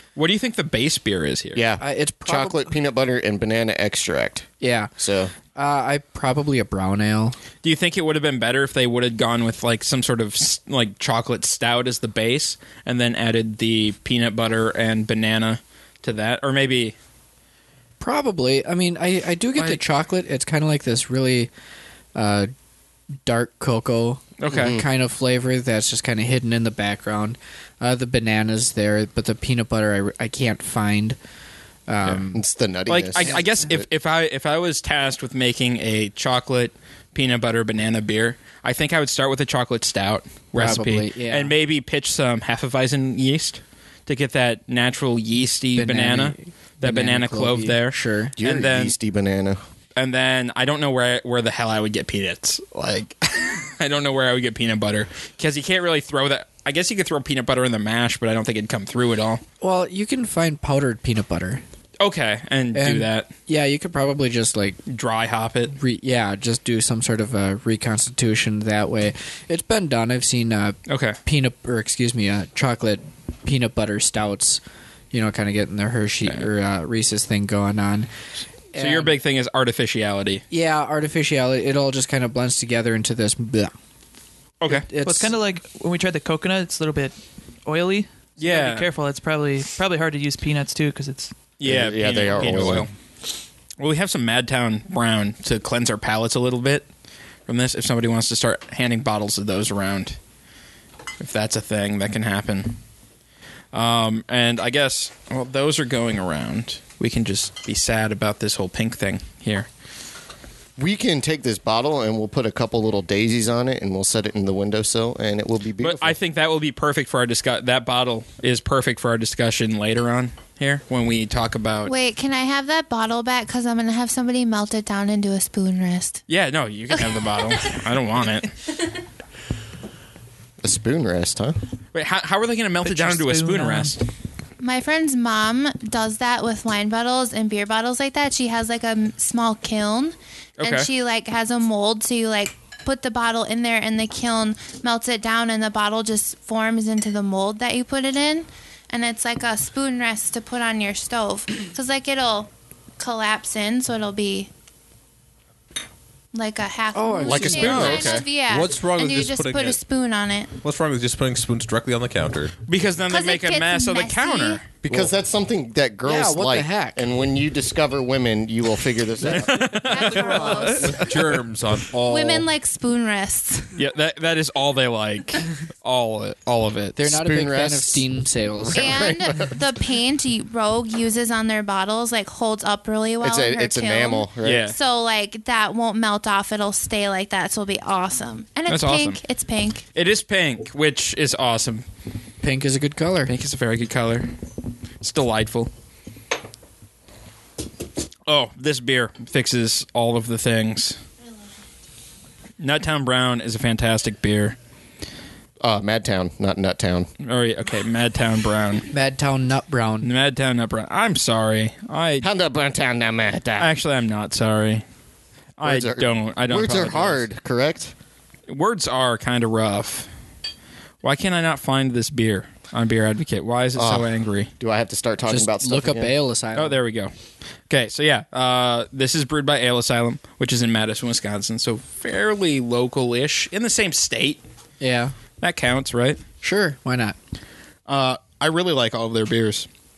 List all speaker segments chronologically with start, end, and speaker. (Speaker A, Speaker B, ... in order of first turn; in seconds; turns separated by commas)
Speaker A: 0.2-1.6, Speaker B: 1.6-5.3, Speaker C: 1.8-2.7, Speaker C: 4.6-4.9, Speaker C: 5.5-7.4, Speaker A: 7.6-16.9, Speaker C: 18.0-21.5, Speaker C: 22.1-22.5, Speaker C: 23.2-31.2, Speaker A: 24.4-24.8, Speaker B: 24.5-24.9, Speaker C: 31.9-32.4, Speaker B: 32.3-33.9, Speaker A: 32.9-49.0, Speaker C: 40.5-41.5, Speaker C: 45.8-48.4, Speaker B: 48.4-49.6, Speaker A: 50.0-59.4, Speaker C: 59.6-61.6, Speaker A: 62.0-63.3, Speaker C: 62.8-64.8, Speaker A: 64.9-65.8, Speaker C: 65.7-78.1, Speaker A: 70.9-71.2, Speaker C: 78.7-79.1, Speaker A: 78.8-80.4, Speaker C: 80.5-83.7, Speaker A: 84.6-84.9, Speaker C: 84.7-85.3, Speaker D: 85.0-91.3, Speaker A: 88.4-88.9, Speaker A: 91.6-92.9, Speaker B: 91.6-92.9, Speaker A: 93.8-96.9, Speaker A: 97.5-100.2, Speaker A: 101.2-102.8, Speaker A: 103.7-109.7, Speaker B: 110.8-116.2, Speaker A: 115.8-121.9, Speaker E: 121.9-126.2, Speaker A: 126.3-128.5, Speaker B: 130.6-131.6, Speaker A: 131.9-134.0, Speaker D: 132.8-134.0, Speaker E: 134.6-154.5, Speaker A: 140.6-140.9, Speaker E: 156.3-160.5, Speaker C: 156.9-157.9, Speaker B: 157.2-158.3, Speaker A: 157.6-158.2, Speaker F: 157.7-159.8, Speaker F: 160.6-162.5, Speaker A: 162.7-164.6, Speaker E: 163.1-164.6, Speaker B: 164.8-169.9, Speaker F: 164.8-165.1, Speaker C: 166.1-167.0, Speaker A: 169.2-170.8, Speaker E: 169.8-171.2, Speaker D: 170.1-171.0, Speaker F: 170.8-172.5, Speaker E: 172.0-173.7, Speaker A: 173.8-177.0, Speaker C: 177.0-178.8, Speaker B: 177.1-178.0, Speaker B: 178.7-179.6, Speaker E: 178.7-189.8, Speaker B: 183.2-184.7, Speaker A: 184.4-184.8, Speaker A: 188.7-189.2, Speaker A: 189.9-191.8, Speaker C: 192.4-193.3, Speaker A: 193.3-194.3, Speaker A: 195.0-195.7, Speaker A: 198.3-201.0, Speaker A: 202.6-204.6, Speaker B: 205.6-207.1, Speaker A: 207.2-208.9, Speaker C: 208.9-210.1, Speaker A: 210.0-212.2, Speaker B: 212.2-213.7, Speaker A: 213.6-214.8, Speaker A: 215.6-217.2, Speaker B: 215.6-217.9, Speaker A: 218.5-220.1, Speaker A: 221.0-224.5, Speaker B: 223.8-224.1, Speaker B: 224.6-226.2, Speaker C: 225.3-226.8, Speaker A: 226.6-227.1, Speaker A: 227.7-234.4, Speaker C: 234.8-235.1, Speaker A: 235.4-236.2, Speaker C: 236.4-237.2, Speaker A: 237.9-239.7